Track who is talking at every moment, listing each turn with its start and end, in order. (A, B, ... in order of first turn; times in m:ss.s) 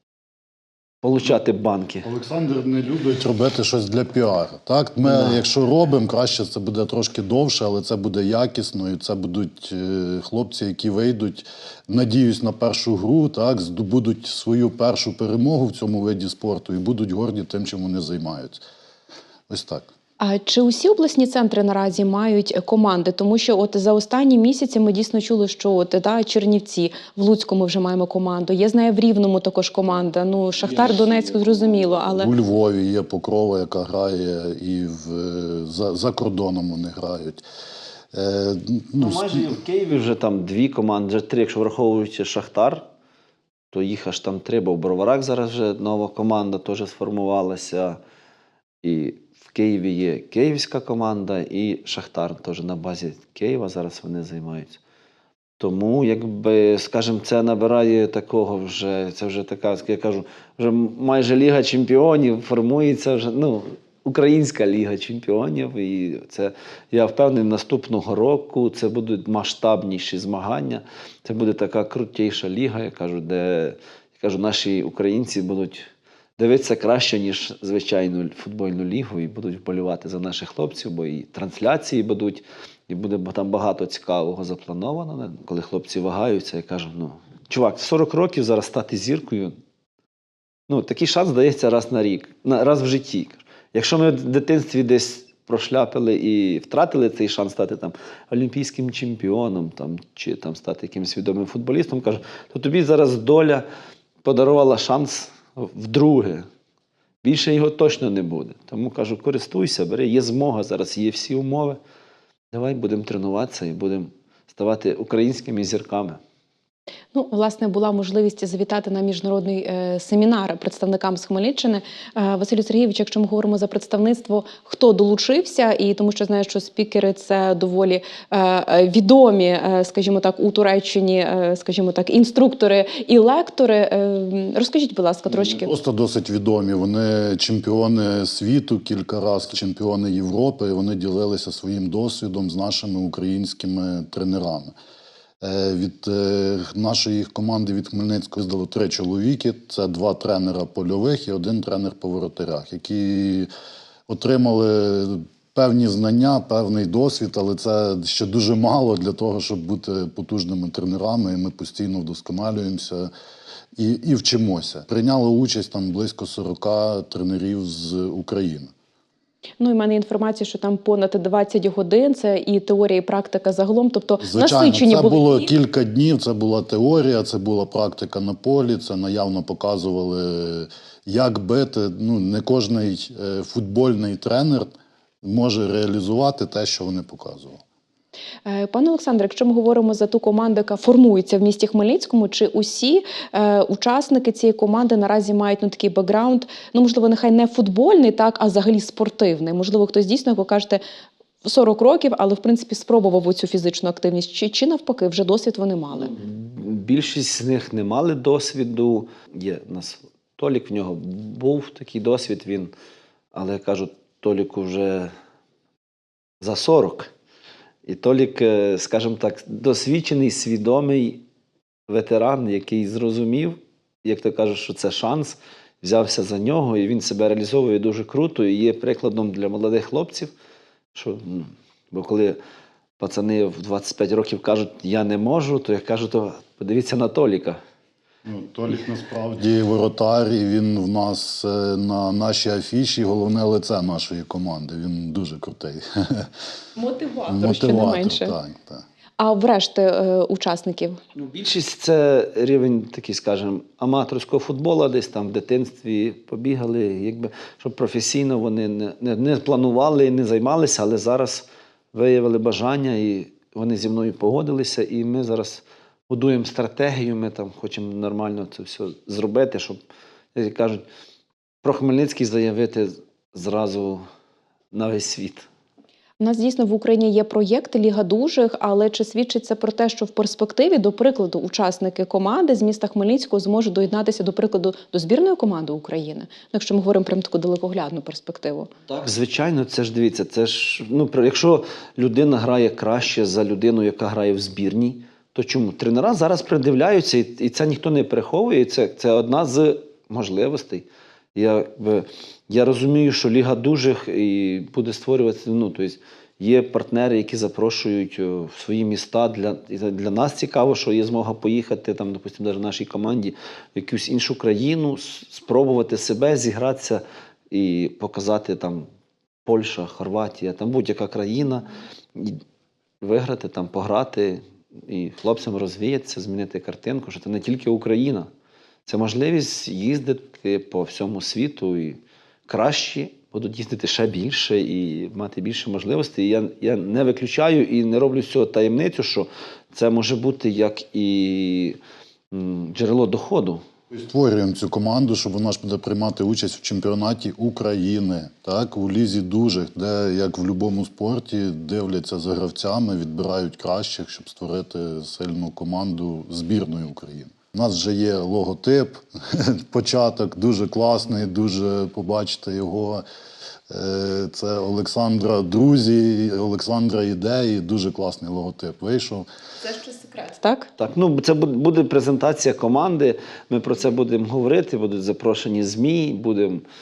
0:01.0-0:02.1 A
0:02.0-0:18.6 B
0:05.0-0:05.4 A
0:19.5-0:19.9 B
0:20.2-0:32.3 C
0:32.1-0:37.4 B
0:38.1-0:39.6 B
0:39.0-0:42.8 A
0:43.7-0:48.0 A
0:48.8-0:54.8 A
0:55.6-1:15.9 A
1:16.4-1:29.6 A
1:30.7-1:43.6 A
1:44.2-1:46.5 A
1:47.2-1:51.8 A
1:52.5-1:56.2 A
1:57.1-2:15.7 C
2:15.3-2:24.7 B
2:25.4-2:33.5 B
2:34.1-2:43.1 B
2:43.8-2:48.7 B
2:49.6-2:55.5 C
2:54.2-3:04.7 B
3:05.2-3:07.6 B
3:08.5-3:20.8 C
3:21.4-3:26.1 C
3:25.9-3:32.7 A
3:33.3-3:35.1 A
3:36.4-3:37.1 A
3:37.8-3:41.2 A
3:41.9-3:50.3 A
3:50.9-3:52.4 A
3:53.0-3:57.6 A
3:58.2-4:06.3 B
4:06.8-4:08.3 C
4:07.2-4:08.8 B
4:09.2-4:11.0 C
4:11.2-4:29.8 A
4:30.4-4:30.8 A
4:31.6-4:34.0 A
4:34.7-4:35.5 A
4:36.2-4:48.7 C
4:48.9-5:18.9 A
5:19.5-5:22.4 A
5:23.0-5:28.3 A
5:28.9-5:41.8 A
5:42.3-5:43.6 A
5:43.9-6:03.0 B
6:03.7-6:09.2 B
6:09.7-6:10.7 C
6:10.8-6:16.6 A